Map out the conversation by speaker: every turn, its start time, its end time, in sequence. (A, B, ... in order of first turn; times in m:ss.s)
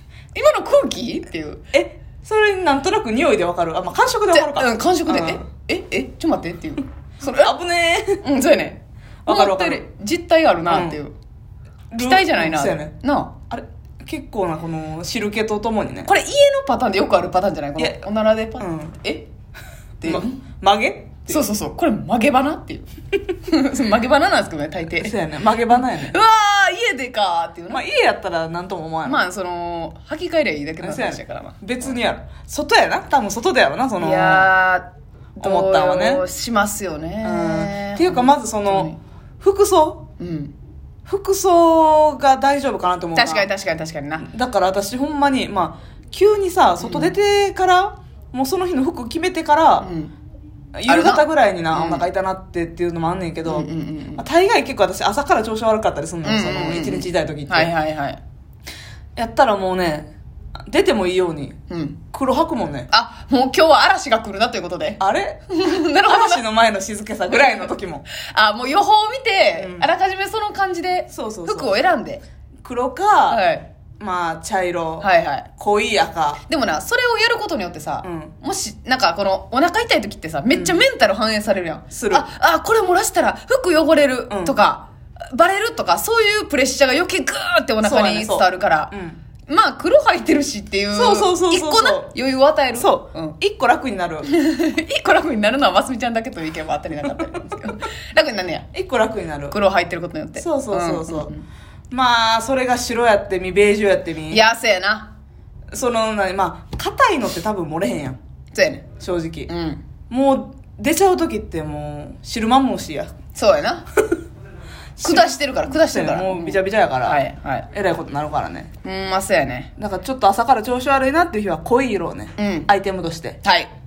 0:00.3-0:01.6 A
0:01.7-0:05.4 B
0:04.3-0:07.6 A
0:07.2-0:08.2 B
0:08.2-0:11.1 A
0:09.2-0:09.8 B
0:10.7-0:11.0 B
0:11.9-0:12.9 B
0:12.0-0:13.3 A
0:13.5-0:16.1 B
0:16.1-0:19.3 A
0:17.8-0:18.0 B
0:18.6-0:19.0 B
0:20.0-0:20.4 A
0:20.0-0:21.5 B
0:21.3-0:22.9 A
0:23.4-0:25.2 A
0:24.9-0:26.2 B
0:25.9-0:27.8 A
0:27.7-0:29.2 B
0:29.0-0:31.7 A
0:30.8-0:34.5 B
0:34.0-0:39.0 A
0:35.4-0:36.2 B
0:37.2-0:40.1 B
0:40.2-0:40.5 A
0:41.1-0:43.5 B
0:43.2-0:44.3 A
0:44.2-0:49.9 B
0:46.8-0:47.1 A
0:49.8-0:50.1 A
0:50.8-0:57.7 B
0:50.9-0:52.0 A
0:53.5-0:54.2 A
0:56.2-0:58.2 A
0:59.2-1:00.1 B
1:00.7-1:01.6 B
1:01.7-1:02.0 A
1:02.1-1:02.9 B
1:02.9-1:06.4 A
1:05.0-1:08.0 B
1:08.2-1:12.2 A
1:09.6-1:09.9 B
1:11.1-1:11.8 B
1:12.6-1:13.4 B
1:13.3-1:13.7 A
1:14.0-1:16.4 B
1:15.0-1:15.5 A
1:16.5-1:28.9 A
1:18.0-1:18.3 B
1:20.5-1:20.8 B
1:21.9-1:22.3 B
1:24.3-1:24.6 B
1:27.8-1:29.2 B
1:29.5-1:33.4 A
1:30.9-1:32.1 B
1:32.8-1:34.3 B
1:34.2-1:38.7 A
1:38.7-1:39.6 B
1:39.5-1:41.4 A
1:40.4-1:41.3 B
1:41.9-1:44.4 B
1:44.3-1:45.1 A
1:45.7-1:48.2 B
1:48.5-1:48.9 A
1:49.0-1:49.5 B
1:49.5-1:49.8 A
1:50.1-1:53.2 B
1:53.3-1:53.9 A
1:55.0-1:58.7 B
1:55.0-1:57.7 A
1:58.8-1:59.7 A
1:59.8-2:03.4 B
2:02.4-2:02.7 A
2:03.4-2:03.7 A